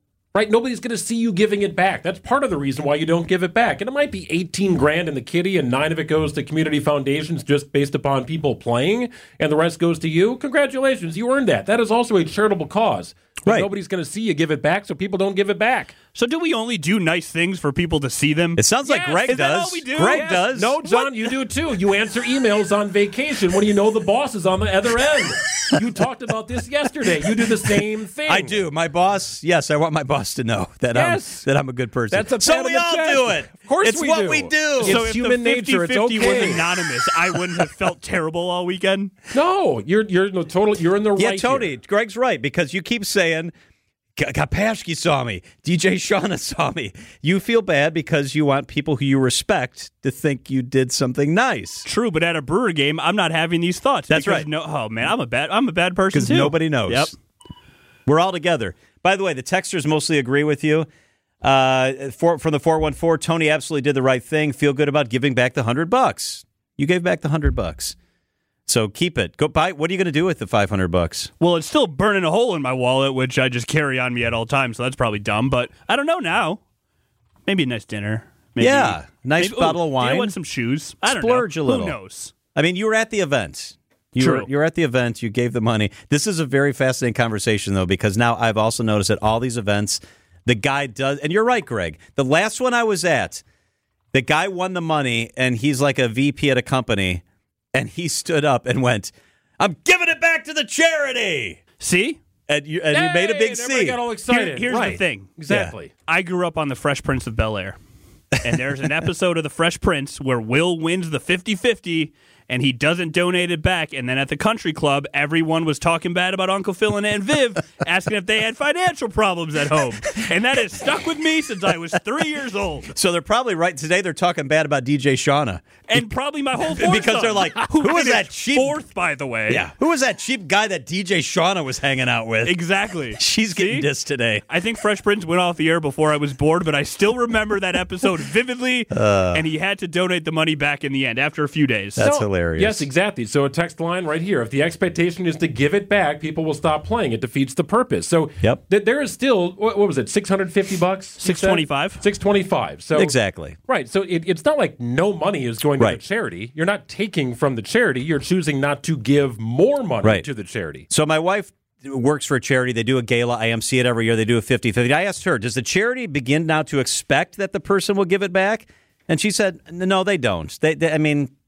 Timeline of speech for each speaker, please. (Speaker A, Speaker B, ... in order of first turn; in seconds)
Speaker A: 0.3-15.9, 18.9-19.2, 20.0-28.6, 30.9-31.4, 32.1-36.8, 39.3-41.7, 102.9-105.9, 142.0-160.8
Speaker B: 16.1-21.1, 34.8-39.1, 51.8-57.1, 71.4-76.6, 77.5-82.3, 84.2-84.5, 101.8-102.2, 104.3-105.3, 106.1-107.8, 108.4-122.9, 125.9-129.7, 132.4-133.9, 134.5-142.1, 151.2-152.0
Speaker C: 18.6-20.8, 28.3-35.0, 41.2-43.5, 44.2-51.9, 54.1-54.5, 56.1-57.1, 58.0-60.9, 61.4-68.0, 68.7-71.3, 78.6-80.3, 81.0-82.0, 82.5-93.4, 94.1-97.2, 97.7-101.6, 102.5-104.0, 122.9-126.1, 126.7-128.8, 129.5-132.6, 133.2-134.4, 138.9-139.4, 142.0-142.8, 152.9-153.6, 160.0-160.3, 160.9-171.3